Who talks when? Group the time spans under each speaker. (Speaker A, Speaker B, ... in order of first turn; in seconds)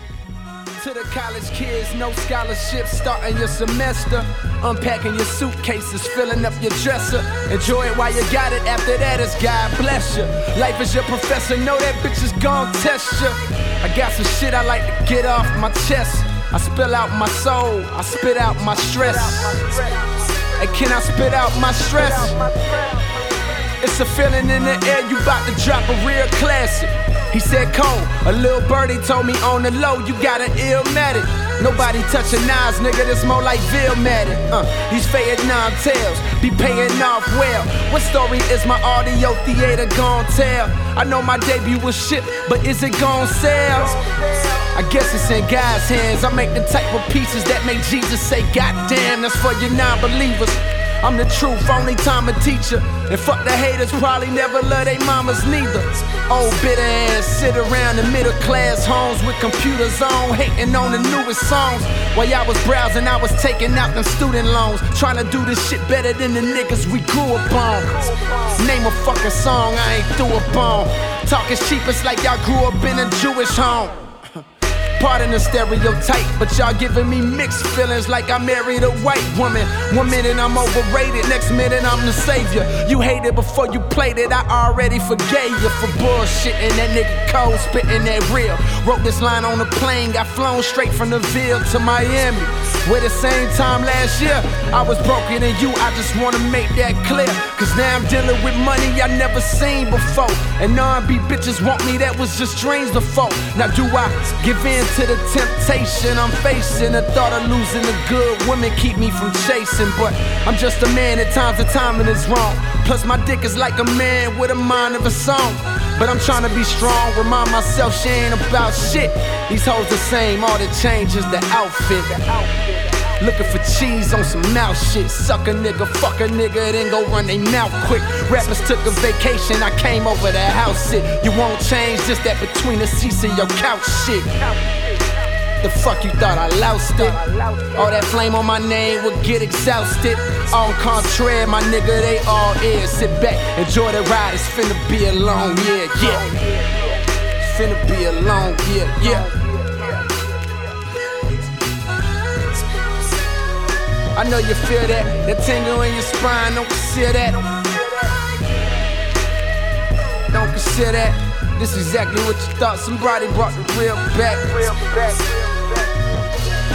Speaker A: 0.8-74.0, 75.0-150.7, 154.1-158.3, 160.3-166.4